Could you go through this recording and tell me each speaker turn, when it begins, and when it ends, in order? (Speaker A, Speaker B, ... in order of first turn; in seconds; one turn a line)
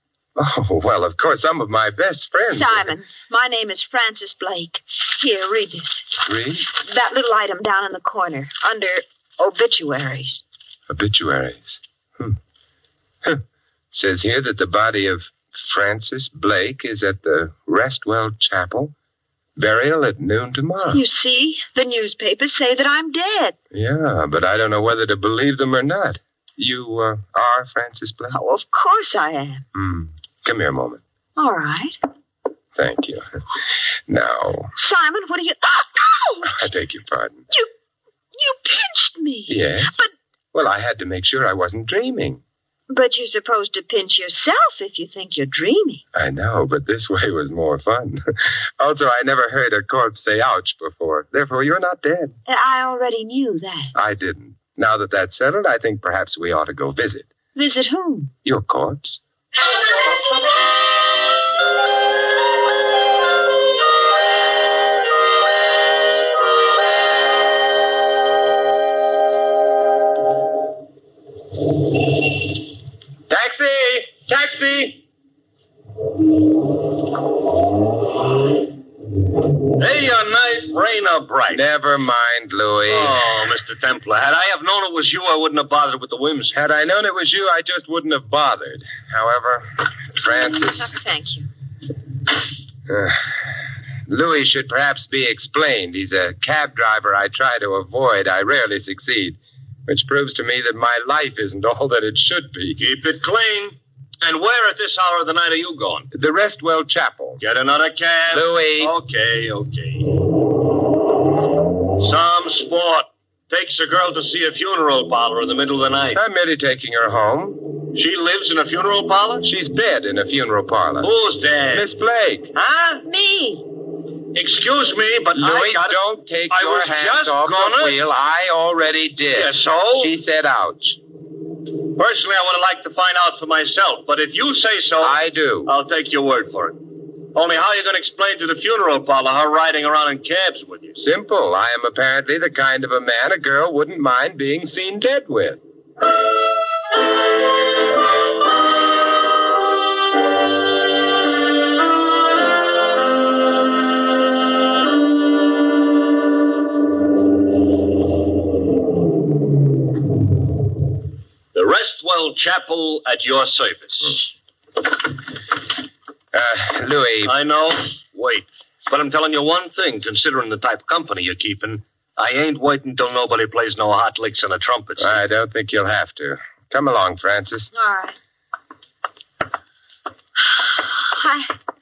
Speaker A: 0.3-2.9
Speaker B: 2.5-6.1
Speaker A: 6.2-6.7
Speaker B: 6.7-10.4
Speaker A: 10.9-12.4
Speaker A: 13.9-18.9
Speaker A: 19.6-21.0
Speaker B: 20.9-23.6
Speaker A: 23.7-28.4
Speaker B: 28.3-29.6
Speaker A: 29.7-31.0
Speaker B: 31.4-31.9
Speaker A: 32.8-33.2
Speaker A: 34.1-34.7
Speaker B: 34.8-36.6
Speaker A: 36.5-37.4
Speaker B: 38.3-40.1
Speaker A: 39.5-39.9
Speaker A: 40.5-42.4
Speaker B: 42.9-46.0
Speaker A: 46.1-48.2
Speaker A: 48.8-52.4
Speaker B: 52.5-53.9
Speaker A: 53.9-57.3
Speaker B: 57.5-58.3
Speaker A: 58.4-59.2
Speaker A: 73.3-75.0
Speaker C: 79.8-81.6
Speaker A: 81.5-83.2
Speaker C: 82.9-86.5
Speaker A: 86.5-90.9
Speaker B: 90.4-91.5
Speaker A: 92.9-93.4
Speaker A: 94.1-102.8
Speaker C: 102.8-106.1
Speaker A: 106.1-107.4
Speaker C: 107.4-110.1
Speaker A: 108.3-108.9
Speaker C: 112.0-116.2
Speaker A: 116.1-117.7
Speaker C: 117.9-119.5
Speaker A: 119.4-121.1
Speaker C: 121.0-121.8
Speaker A: 121.7-122.5
Speaker C: 122.5-123.0
Speaker B: 123.0-123.7
Speaker C: 124.3-128.0
Speaker A: 125.3-131.0
Speaker C: 129.3-130.1
Speaker C: 131.9-141.0
Speaker A: 135.0-135.7
Speaker A: 141.0-145.6
Speaker C: 161.5-164.2
Speaker A: 166.3-167.3
Speaker C: 167.2-175.2
Speaker A: 175.0-177.7
Speaker B: 177.7-178.2
Speaker B: 180.4-181.5